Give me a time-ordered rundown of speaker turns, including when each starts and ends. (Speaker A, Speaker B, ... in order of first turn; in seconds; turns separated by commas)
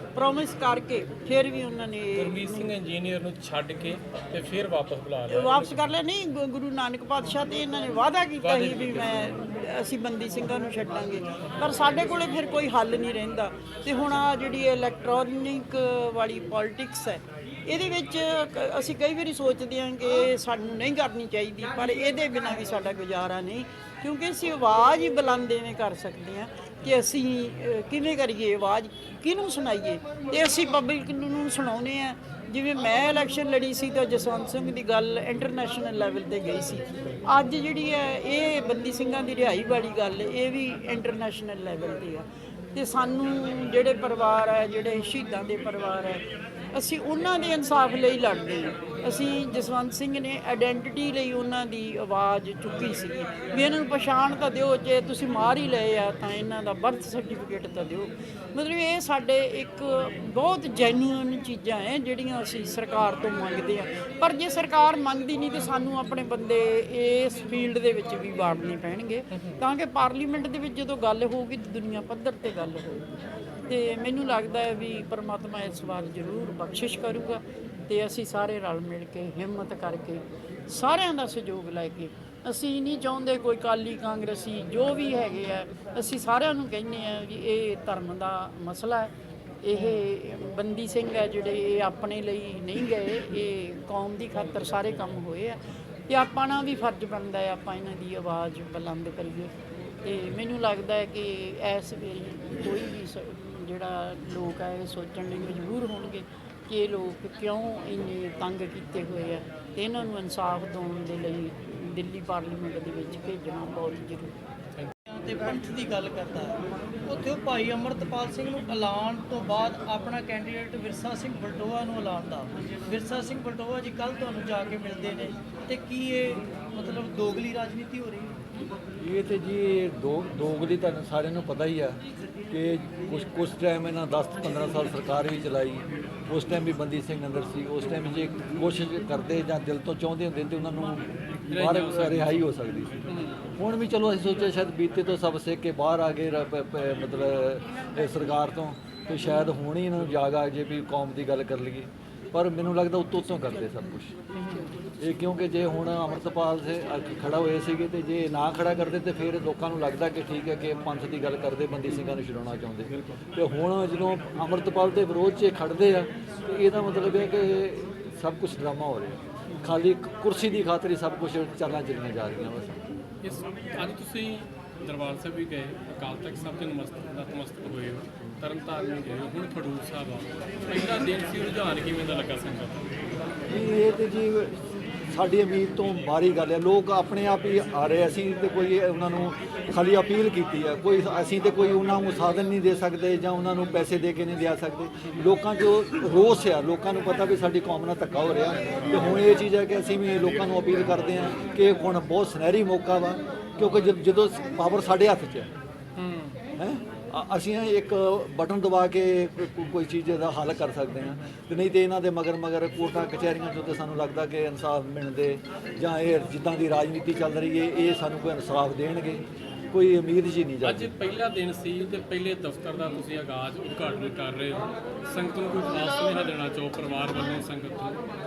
Speaker A: 0.1-2.7, Speaker B: 2.2-5.7, Speaker A: 5.3-73.1, Speaker B: 8.4-9.3, Speaker A: 73.7-89.1, Speaker A: 89.6-99.5, Speaker A: 100.0-114.3, Speaker C: 115.1-128.3, Speaker D: 129.0-132.0, Speaker D: 132.5-143.0, Speaker B: 141.5-142.4, Speaker B: 143.1-143.4, Speaker D: 143.6-154.1, Speaker D: 155.0-172.8, Speaker B: 173.2-182.8, Speaker D: 183.5-184.6, Speaker D: 185.1-205.5, Speaker B: 206.0-206.4, Speaker D: 206.6-220.9, Speaker B: 220.6-228.0